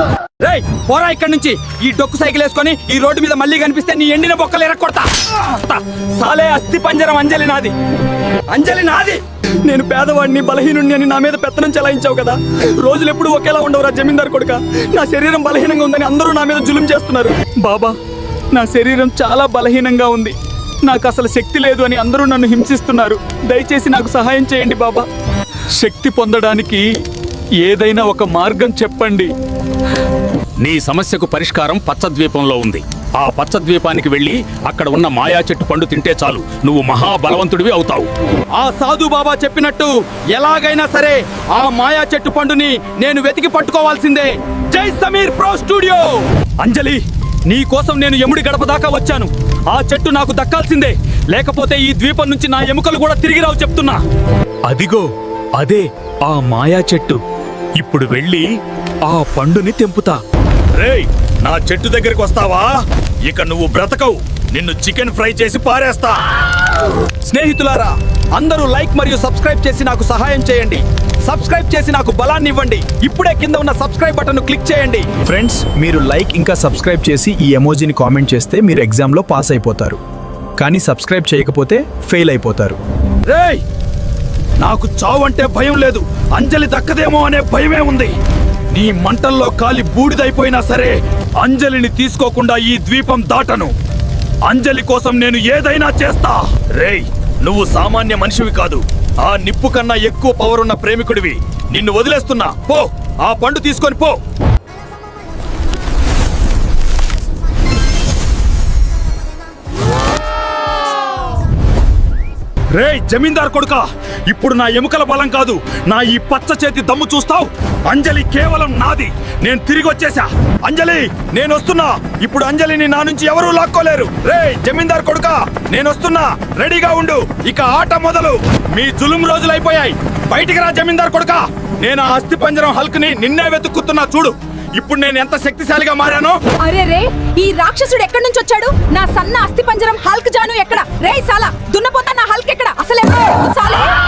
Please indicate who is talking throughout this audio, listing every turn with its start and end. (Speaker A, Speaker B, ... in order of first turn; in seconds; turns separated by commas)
Speaker A: 0.4-7.7, Speaker A: 8.5-18.0, Speaker A: 18.5-25.1, Speaker A: 25.8-26.9, Speaker A: 27.6-29.3, Speaker B: 30.6-38.1, Speaker A: 38.6-54.0, Speaker A: 54.7-57.2, Speaker A: 57.8-58.5, Speaker A: 59.1-60.2, Speaker A: 60.8-66.2, Speaker A: 67.3-75.3, Speaker C: 75.3-80.0, Speaker C: 80.6-82.8, Speaker A: 83.3-83.6, Speaker A: 84.6-88.2, Speaker A: 88.7-93.7, Speaker A: 94.5-104.2, Speaker A: 112.7-136.4, Speaker D: 136.6-143.9